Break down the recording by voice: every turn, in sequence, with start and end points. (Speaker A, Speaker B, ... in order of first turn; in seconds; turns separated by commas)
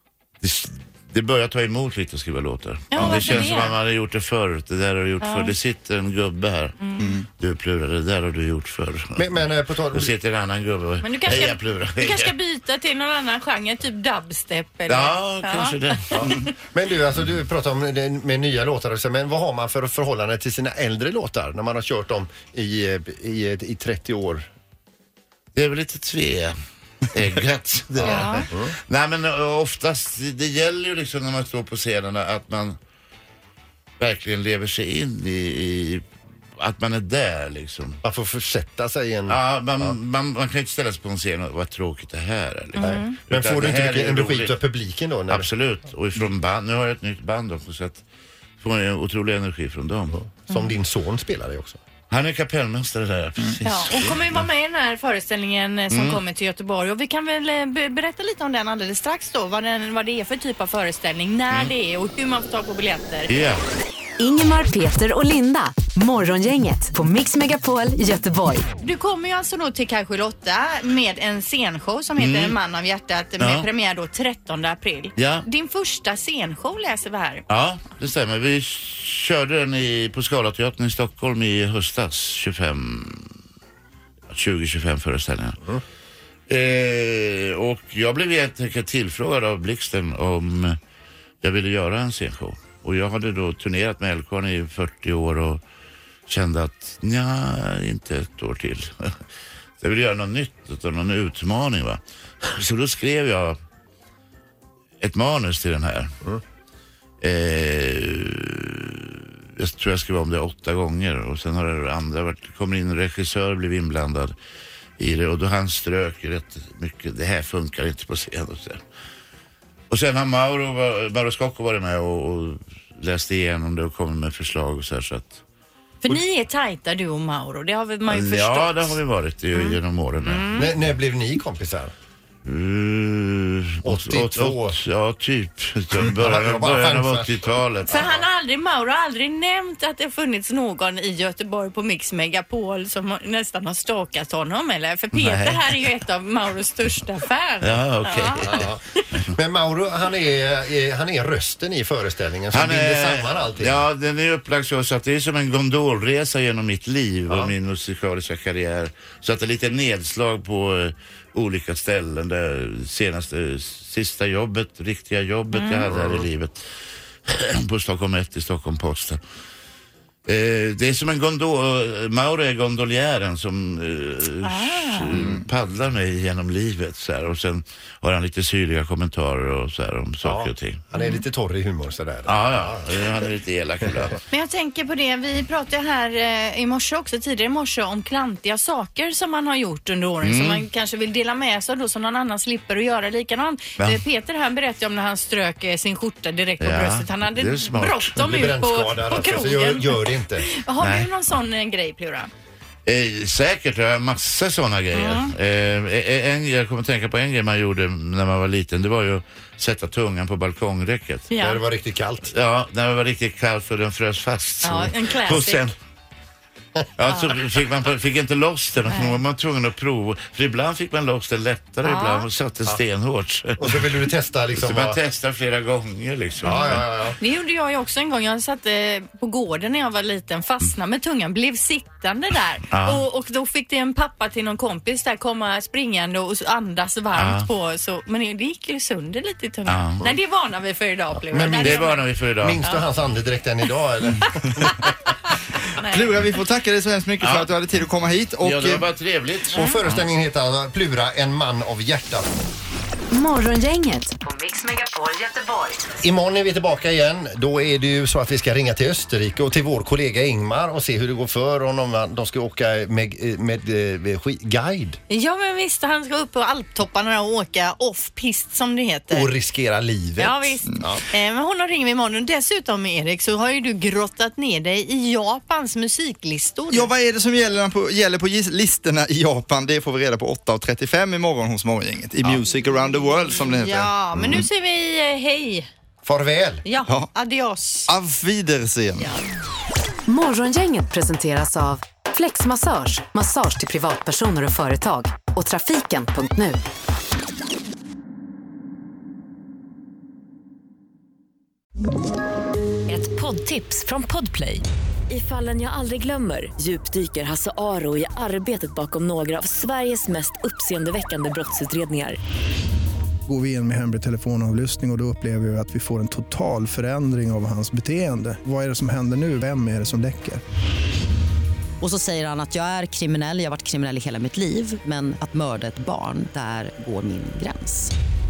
Speaker A: 0.4-6.8, Speaker B: 2.9-3.8, Speaker C: 3.0-3.3, Speaker B: 5.2-5.5, Speaker B: 6.8-7.1, Speaker C: 7.0-7.3, Speaker A: 7.3-12.3, Speaker D: 9.2-10.1, Speaker B: 11.0-16.5, Speaker A: 14.9-16.4, Speaker D: 16.2-24.5, Speaker A: 25.6-26.6, Speaker A: 27.1-32.8, Speaker D: 28.0-28.8, Speaker B: 28.0-28.5, Speaker A: 34.0-36.0, Speaker A: 36.6-38.0, Speaker D: 38.0-39.9, Speaker A: 39.3-44.6, Speaker B: 42.8-43.2, Speaker D: 42.8-45.5, Speaker A: 45.3-48.0, Speaker A: 48.6-50.2, Speaker D: 50.1-51.8, Speaker A: 52.1-54.5, Speaker B: 53.6-63.3, Speaker A: 55.9-56.2, Speaker A: 63.3-63.6, Speaker E: 64.2-68.7, Speaker B: 68.8-77.5, Speaker A: 72.2-72.6, Speaker A: 73.4-73.7, Speaker A: 75.2-75.5, Speaker A: 77.5-83.3, Speaker A: 84.3-85.6, Speaker A: 86.5-90.8, Speaker A: 91.4-95.6, Speaker A: 96.3-99.2, Speaker A: 99.8-103.6, Speaker A: 105.0-106.1, Speaker A: 107.2-114.3, Speaker A: 115.0-118.8, Speaker A: 119.9-125.4, Speaker B: 126.0-129.0, Speaker A: 128.1-130.6, Speaker B: 129.5-130.7, Speaker D: 130.5-131.9, Speaker A: 132.4-138.2, Speaker D: 133.8-134.8, Speaker D: 136.0-138.1, Speaker B: 137.9-148.5, Speaker A: 145.1-145.8, Speaker A: 147.6-148.7, Speaker D: 148.4-153.9, Speaker A: 152.5-166.6, Speaker B: 165.5-165.9, Speaker D: 165.9-166.3, Speaker A: 167.3-169.2, Speaker A: 170.3-180.8, Speaker B: 174.4-175.1, Speaker C: 175.1-175.5, Speaker D: 180.2-183.0, Speaker B: 181.0-181.2, Speaker A: 182.2-184.2, Speaker B: 184.3-202.3, Speaker A: 190.2-190.7, Speaker A: 193.8-194.0, Speaker A: 196.6-198.5, Speaker D: 198.2-200.5, Speaker A: 200.8-201.1, Speaker A: 202.9-211.3, Speaker B: 204.9-205.3, Speaker B: 211.3-211.6, Speaker D: 211.3-212.3, Speaker A: 212.3-215.8, Speaker B: 214.6-215.7, Speaker A: 217.0-223.9, Speaker B: 218.9-219.2, Speaker B: 221.8-222.3, Speaker D: 223.6-225.0, Speaker A: 224.5-226.9, Speaker D: 226.4-227.2, Speaker B: 226.6-242.1, Speaker A: 232.7-233.0, Speaker A: 237.2-237.5, Speaker A: 239.7-240.1, Speaker D: 241.3-244.8, Speaker A: 241.5-242.7, Speaker B: 245.8-246.1, Speaker C: 245.8-248.8, Speaker A: 247.2-247.5, Speaker A: 248.4-250.1, Speaker D: 249.5-252.3, Speaker B: 249.6-249.8, Speaker E: 253.1-255.9, Speaker D: 256.0-265.0, Speaker B: 265.1-269.3, Speaker D: 269.1-271.0, Speaker B: 270.2-276.9, Speaker C: 276.7-284.4, Speaker B: 283.3-285.7, Speaker D: 286.0-286.6, Speaker B: 286.6-287.9, Speaker C: 287.9-289.1, Speaker E: 290.1-296.6, Speaker F: 302.9-312.2, Speaker G: 313.3-320.4, Speaker H: 321.8-327.9